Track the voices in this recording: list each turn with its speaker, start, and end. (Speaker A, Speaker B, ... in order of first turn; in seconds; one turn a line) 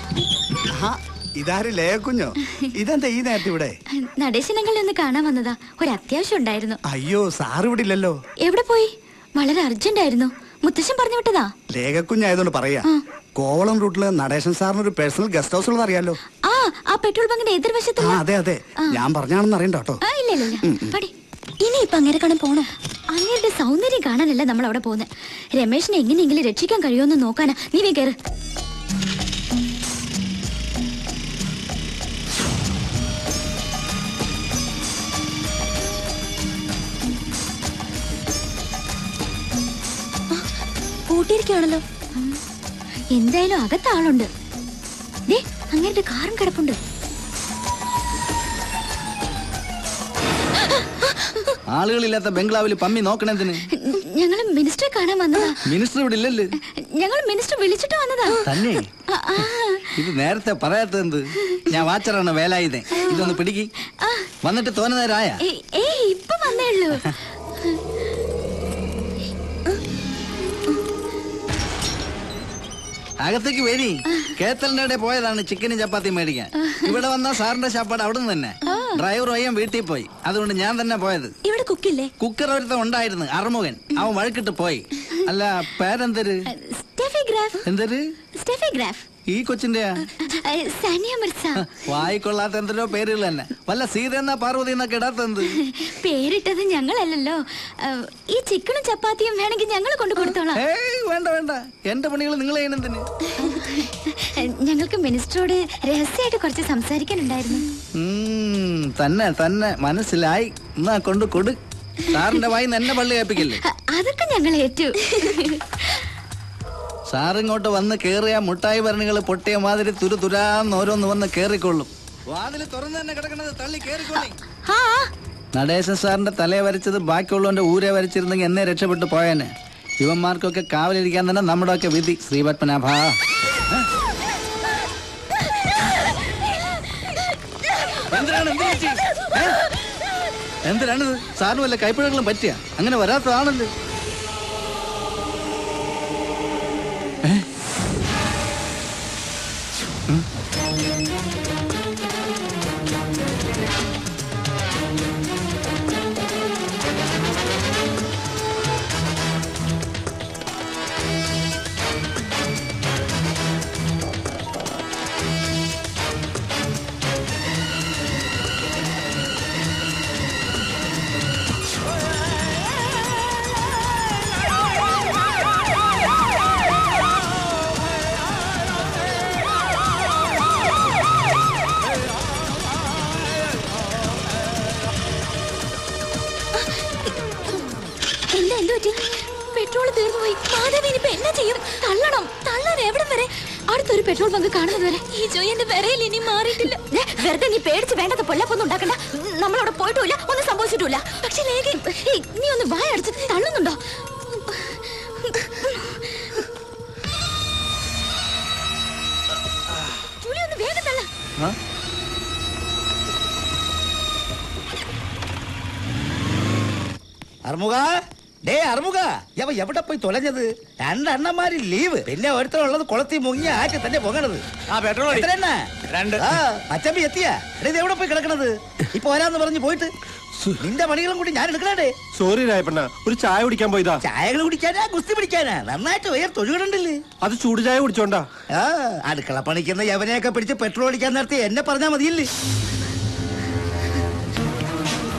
Speaker A: 0.7-3.8
Speaker B: 4.0-6.8
Speaker A: 6.9-8.2
Speaker B: 8.4-11.5
Speaker A: 11.7-16.2
Speaker B: 16.4-18.2
Speaker A: 18.0-21.0
Speaker B: 20.0-28.2
Speaker B: 41.1-42.4
Speaker B: 43.1-44.3
Speaker B: 45.3-46.8
Speaker B: 50.8-51.5
Speaker C: 51.7-53.6
Speaker B: 53.8-55.6
Speaker C: 55.6-56.5
Speaker B: 57.0-58.4
Speaker C: 58.4-58.9
Speaker B: 59.1-59.9
Speaker C: 60.0-63.7
Speaker B: 62.9-63.4
Speaker B: 64.0-64.3
Speaker C: 64.4-65.4
Speaker B: 65.4-67.1
Speaker C: 73.2-81.3
Speaker B: 78.7-79.0
Speaker B: 81.5-82.1
Speaker C: 82.2-86.5
Speaker B: 86.5-87.6
Speaker C: 87.7-88.0
Speaker B: 88.4-89.0
Speaker C: 89.3-90.0
Speaker B: 90.2-91.6
Speaker C: 91.6-95.5
Speaker B: 95.5-100.6
Speaker C: 100.2-103.1
Speaker B: 103.4-107.7
Speaker C: 108.0-111.6
Speaker C: 112.1-113.6
Speaker B: 113.7-115.8
Speaker C: 117.1-124.3
Speaker B: 124.7-125.1
Speaker C: 125.5-133.2
Speaker C: 138.1-139.6
Speaker C: 140.6-143.7
Speaker B: 188.3-203.8
Speaker B: 204.3-206.4
Speaker B: 210.2-211.1
Speaker D: 217.5-224.5
Speaker D: 225.1-229.9
Speaker D: 230.6-231.9
Speaker E: 232.2-234.0
Speaker D: 234.0-237.0
Speaker E: 237.2-238.3
Speaker D: 238.5-242.3